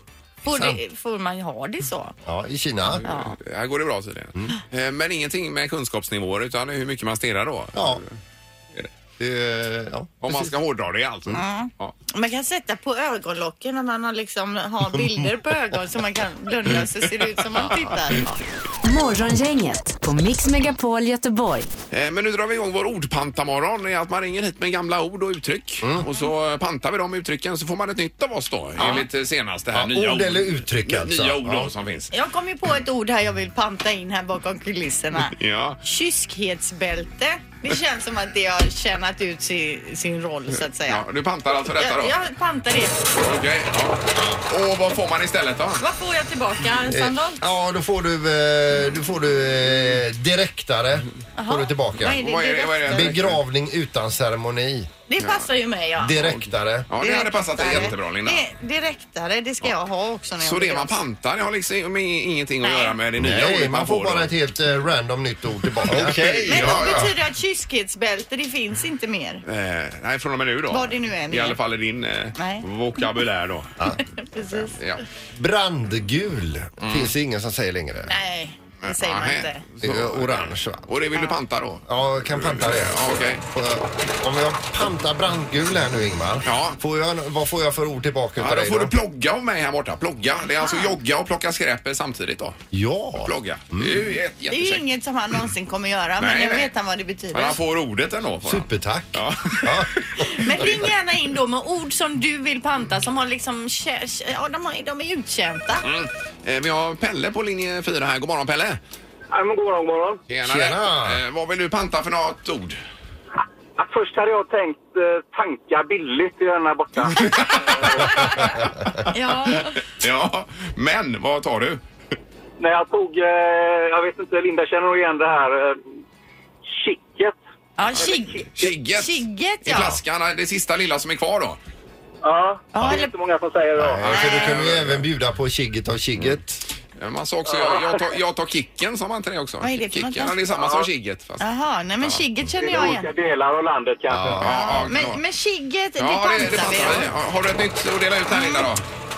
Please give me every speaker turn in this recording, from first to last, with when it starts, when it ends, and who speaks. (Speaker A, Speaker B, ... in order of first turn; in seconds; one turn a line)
Speaker A: 0.4-2.2
Speaker B: 0.5-0.8
Speaker B: 2.2-3.1
Speaker C: 3.0-8.2
Speaker A: 3.0-3.4
Speaker B: 7.7-8.0
Speaker B: 9.2-10.5
Speaker C: 10.2-11.9
Speaker A: 11.3-18.4
Speaker B: 14.9-15.3
Speaker D: 18.8-21.7
Speaker C: 21.9-32.1
Speaker A: 28.8-29.1
Speaker B: 29.7-31.7
Speaker A: 32.1-41.0
Speaker C: 35.3-35.8
Speaker C: 40.9-42.1
Speaker A: 41.7-43.0
Speaker C: 43.2-45.8
Speaker B: 44.1-44.4
Speaker A: 45.8-47.4
Speaker B: 46.9-52.2
Speaker A: 51.4-53.1
Speaker C: 52.1-53.4
Speaker B: 52.9-54.9
Speaker A: 55.1-56.2
Speaker B: 56.0-56.9
Speaker C: 56.2-58.4
Speaker A: 57.0-61.0
Speaker C: 60.4-64.3
Speaker A: 62.6-63.0
Speaker B: 63.2-67.1
Speaker C: 65.8-67.1
Speaker A: 66.5-69.4
Speaker C: 69.5-73.7
Speaker A: 70.7-71.6
Speaker A: 72.4-72.7
Speaker A: 74.1-74.8
Speaker C: 74.7-75.0
Speaker B: 75.3-78.1
Speaker C: 76.8-77.1
Speaker A: 78.1-79.6
Speaker C: 78.8-83.4
Speaker B: 79.8-80.9
Speaker B: 81.9-88.9
Speaker C: 86.5-86.8
Speaker C: 88.4-92.6
Speaker A: 90.6-91.0
Speaker B: 92.7-94.2
Speaker C: 93.2-94.8
Speaker A: 94.5-97.6
Speaker C: 96.2-96.7
Speaker C: 97.3-100.1
Speaker B: 98.4-100.8
Speaker A: 100.2-105.8
Speaker C: 105.8-108.8
Speaker E: 109.3-110.2
Speaker C: 110.3-112.8
Speaker B: 110.4-111.2
Speaker E: 113.8-118.4
Speaker C: 117.1-118.5
Speaker A: 119.1-119.8
Speaker C: 119.5-121.8
Speaker E: 122.6-125.8
Speaker E: 126.7-127.4
Speaker A: 127.8-130.0
Speaker C: 128.6-131.6
Speaker E: 132.2-134.1
Speaker A: 132.8-133.1
Speaker B: 133.8-136.6
Speaker C: 134.0-135.0
Speaker A: 134.1-134.6
Speaker C: 137.0-141.4
Speaker E: 137.5-138.1
Speaker A: 139.6-140.4
Speaker A: 141.4-143.1
Speaker E: 142.6-144.4
Speaker B: 144.1-145.0
Speaker C: 144.4-145.2
Speaker A: 144.4-147.1
Speaker C: 146.0-148.8
Speaker A: 148.3-148.7